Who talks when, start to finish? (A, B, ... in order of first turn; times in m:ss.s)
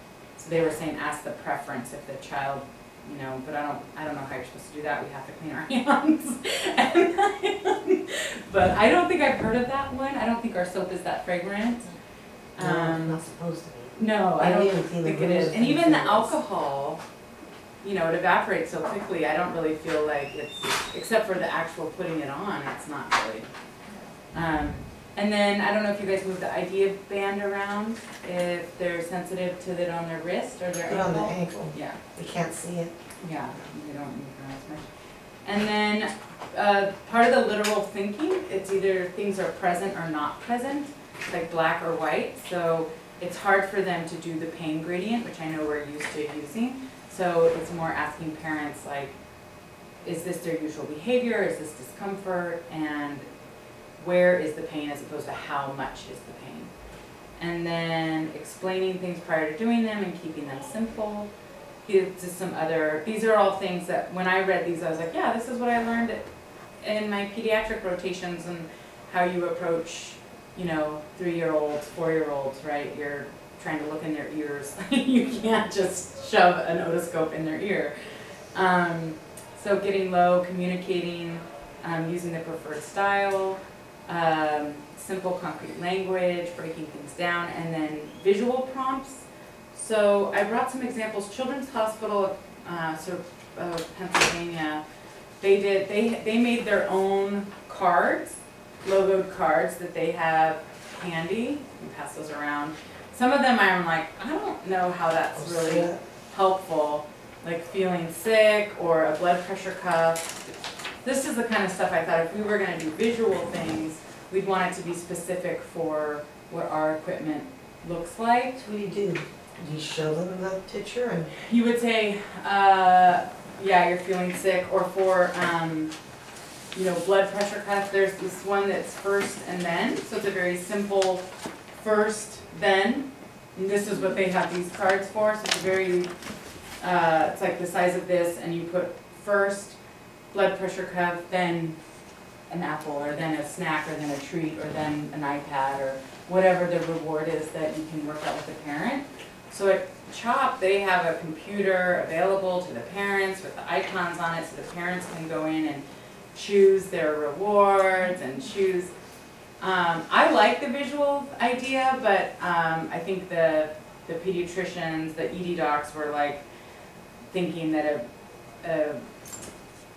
0:00.4-0:11.9 A
0:12.6-0:13.2 A
0:12.6-0:16.4 B
0:14.0-0:17.0 A
0:17.8-0:23.5 A
0:24.3-0:32.0 A
0:30.9-0:32.9 B
0:33.2-0:34.9 A
0:35.4-0:49.1 A
0:50.0-0:53.2 A
0:54.0-0:56.7 A
0:57.4-1:01.3 A
1:01.8-1:06.2 A
1:06.8-1:17.9 A
1:18.5-1:34.8 A
1:35.4-1:50.4 A
1:45.4-1:46.0 B
1:51.0-1:58.6 A
1:58.6-2:01.3 B
2:01.4-2:05.9 A
2:06.7-2:16.1 A
2:16.8-2:19.8 A
2:20.3-2:21.8 A
2:22.5-2:38.9 A
2:39.6-2:46.4 A
2:47.3-2:48.0 A
2:48.6-2:49.0 A